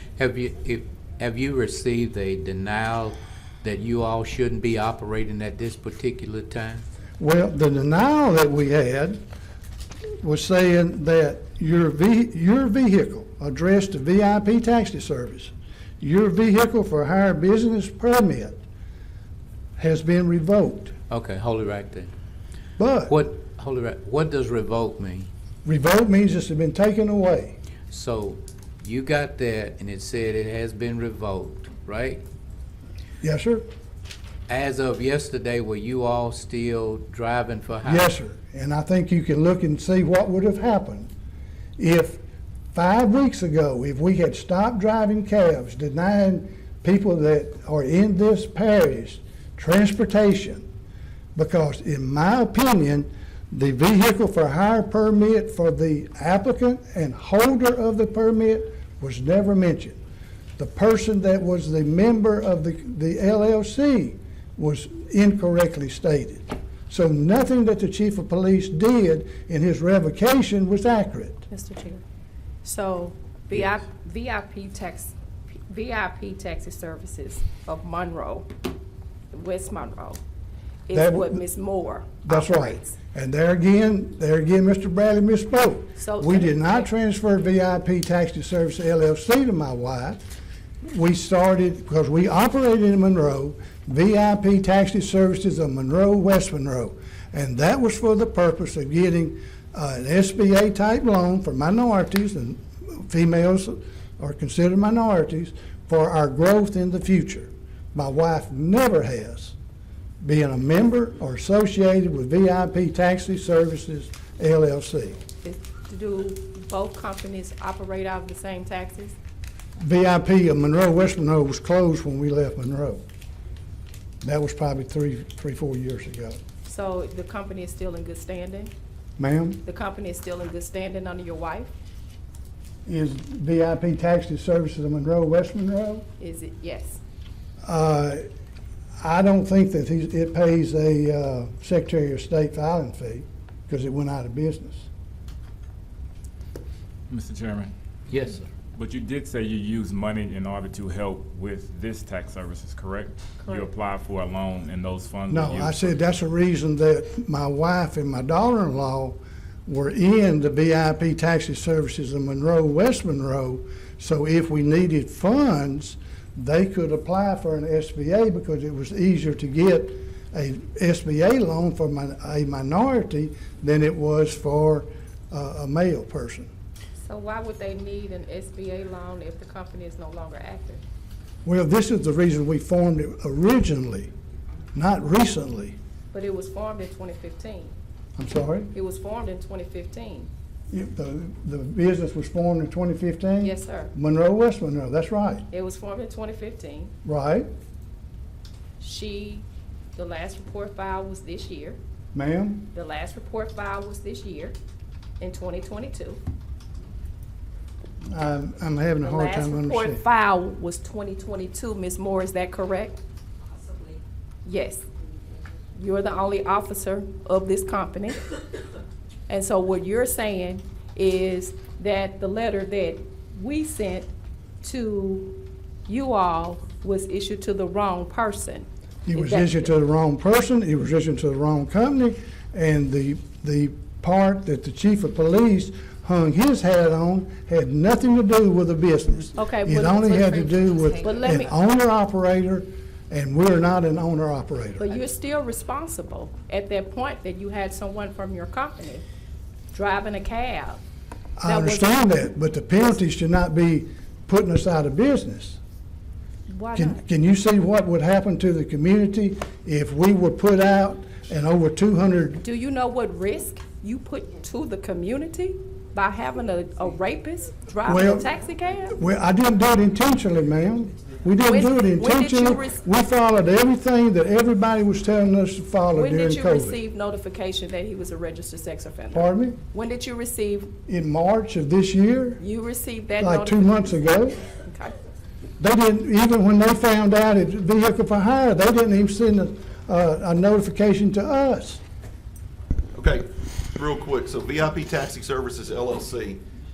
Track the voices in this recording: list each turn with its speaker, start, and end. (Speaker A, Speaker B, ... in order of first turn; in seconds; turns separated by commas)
Speaker A: 0.2-6.8, Speaker B: 7.2-9.2, Speaker B: 10.2-18.6, Speaker B: 19.8-20.9, Speaker A: 21.1-22.1, Speaker B: 22.8-23.1, Speaker A: 23.1-25.3, Speaker B: 25.6-27.6, Speaker A: 27.9-32.2, Speaker B: 33.2-33.7, Speaker A: 34.5-38.1, Speaker B: 37.9-41.1, Speaker B: 41.8-42.2, Speaker B: 42.7-50.7, Speaker B: 51.4-60.0, Speaker B: 60.6-71.4, Speaker C: 71.5-72.0, Speaker C: 72.6-75.1, Speaker C: 75.7-78.5, Speaker C: 79.3-80.2, Speaker C: 80.9-82.9, Speaker B: 80.9-81.4, Speaker B: 82.2-90.2, Speaker C: 86.0-86.9, Speaker B: 90.8-109.6, Speaker B: 110.2-115.2, Speaker C: 115.4-119.2, Speaker B: 119.8-123.0, Speaker B: 124.2-126.4, Speaker C: 126.7-128.7, Speaker B: 129.2-129.6, Speaker C: 129.7-131.7, Speaker B: 132.9-136.1, Speaker C: 136.2-137.0, Speaker B: 137.6-138.2, Speaker B: 139.0-144.9, Speaker D: 147.1-147.7, Speaker A: 148.1-148.4, Speaker D: 148.8-156.0, Speaker B: 155.3-176.5, Speaker C: 177.0-180.8, Speaker B: 181.4-184.1, Speaker B: 184.7-185.8, Speaker C: 186.1-187.8, Speaker B: 188.2-188.7, Speaker C: 188.7-190.3, Speaker B: 190.7-195.5, Speaker C: 193.4-193.9, Speaker C: 195.5-196.9, Speaker B: 197.1-197.5, Speaker C: 198.8-199.4, Speaker C: 200.0-201.8, Speaker B: 202.1-202.7, Speaker C: 202.7-204.6, Speaker C: 205.2-206.2, Speaker B: 208.1-210.0, Speaker C: 209.0-213.0, Speaker C: 214.4-214.8, Speaker C: 215.8-218.3, Speaker C: 219.3-224.1, Speaker C: 224.6-229.7, Speaker B: 229.1-244.9, Speaker C: 239.4-241.6, Speaker C: 244.8-249.0, Speaker C: 249.7-250.8, Speaker B: 251.4-255.6, Speaker C: 251.4-252.3, Speaker C: 256.5-257.0, Speaker B: 256.8-262.4, Speaker C: 262.4-269.0, Speaker B: 267.9-268.3, Speaker B: 268.9-276.8, Speaker C: 271.4-272.8, Speaker C: 275.9-280.7, Speaker B: 279.1-279.6, Speaker B: 280.9-282.4, Speaker C: 282.4-285.0, Speaker B: 283.2-284.4, Speaker B: 285.6-291.8, Speaker E: 292.9-296.4